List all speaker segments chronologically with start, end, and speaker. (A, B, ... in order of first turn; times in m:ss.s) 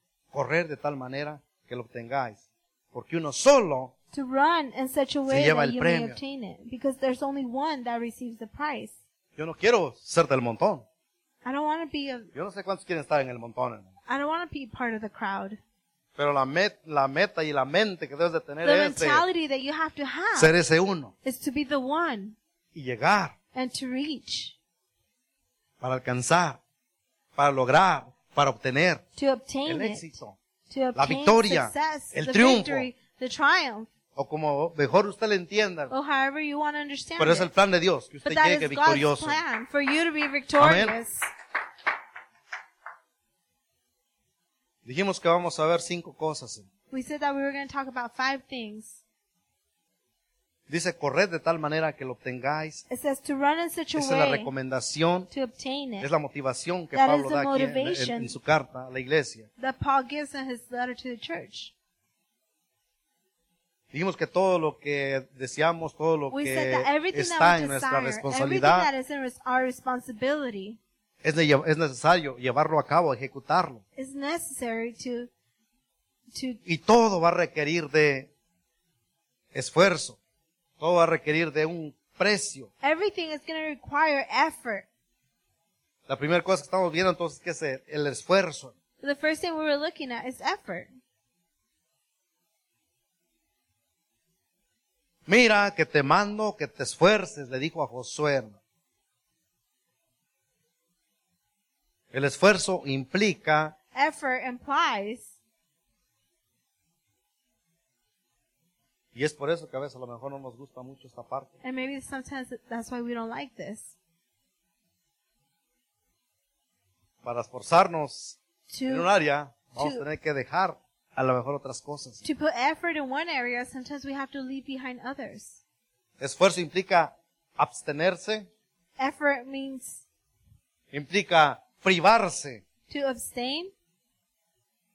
0:00.3-0:03.9 A
0:04.1-0:09.0 B
0:05.3-0:06.2 A
0:09.4-0:10.8 A
0:11.4-0:12.3 B
0:12.3-0:13.9 A
0:14.1-0:15.6 B
0:16.2-0:19.3 A
0:18.6-0:20.5 B
0:20.4-0:21.1 A
0:21.2-0:22.4 B
0:22.7-0:23.3 A
0:23.5-0:24.6 B
0:25.8-0:26.6 A
0:27.4-0:29.0 A
0:29.2-0:33.9 B
0:29.7-0:30.4 A
0:31.0-0:32.9 A
0:34.2-0:35.9 A
0:35.9-0:37.5 B
0:37.2-0:39.4 A
0:38.2-0:41.3 B
0:40.6-0:41.0 A
0:44.8-0:46.7 A
0:46.9-0:49.0 B
0:50.7-0:52.8 A
0:52.9-0:54.5 B
0:54.0-0:55.3 A
0:55.3-0:56.1 B
0:56.0-0:59.5 A
0:56.9-0:58.3 B
0:59.6-1:01.7 B
1:03.9-1:08.9 A
1:06.3-1:10.8 B
1:11.2-1:13.8 A
1:14.0-1:15.3 B
1:16.3-1:16.6 B
1:16.6-1:18.3 A
1:19.5-1:20.2 A
1:20.8-1:22.7 A
1:22.8-1:24.9 B
1:26.1-1:28.7 A
1:29.0-1:30.9 B
1:35.3-1:38.6 A
1:42.1-1:43.7 A
1:43.9-1:45.3 B
1:49.1-1:51.6 A
1:51.6-1:53.9 B
1:57.2-2:02.2 A
1:58.7-1:59.1 B
1:59.8-2:00.0 B
2:02.2-2:05.6 B
2:06.2-2:08.5 A
2:09.0-2:10.0 B
2:10.9-2:12.6 A
2:12.9-2:13.7 B